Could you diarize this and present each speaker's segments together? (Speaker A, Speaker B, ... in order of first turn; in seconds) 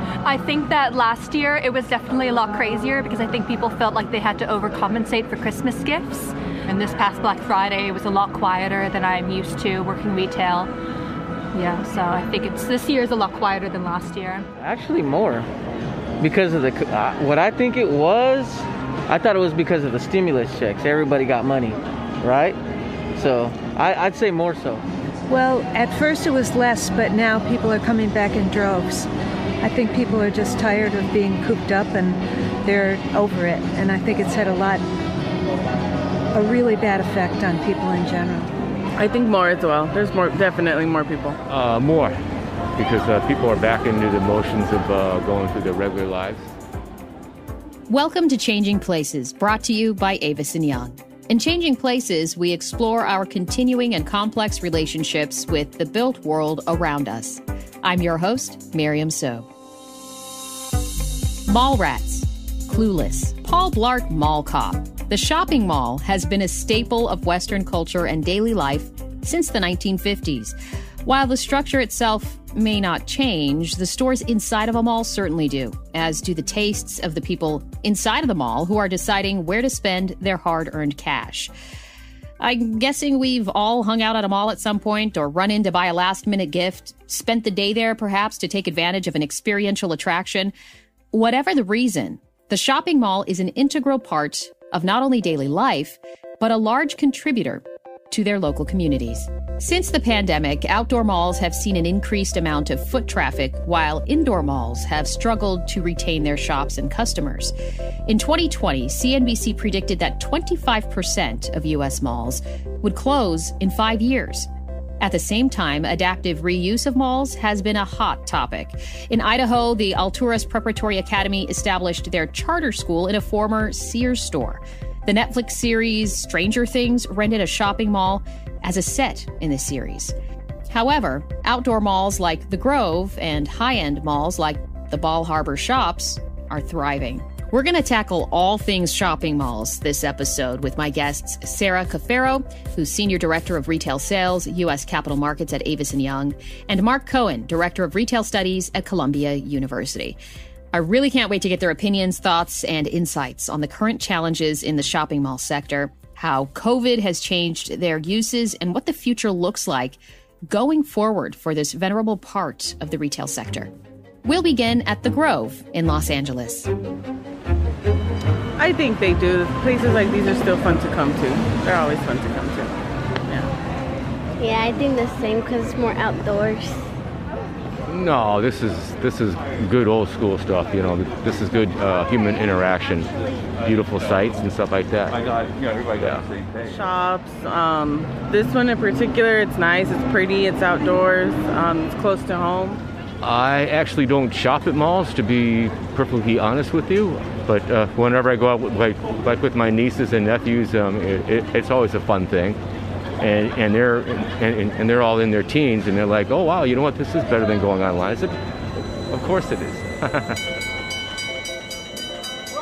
Speaker A: 0.2-10.7, 11.5-14.5
Speaker B: 14.6-15.5, 16.2-22.6, 23.1-24.8
Speaker C: 25.3-29.1, 29.6-34.9, 36.3-38.5
Speaker D: 39.0-41.4, 168.6-172.8, 173.3-173.5, 186.6-192.8
Speaker E: 41.5-42.2, 42.8-46.5, 177.9-185.3, 185.9-186.3, 193.2-202.6, 203.2-208.3, 209.1-210.4
Speaker F: 47.9-59.5, 61.5-81.5, 82.4-90.5, 91.1-107.5, 108.1-114.5, 115.0-130.1, 130.7-150.2, 150.7-163.7, 164.2-166.7
Speaker G: 174.4-176.9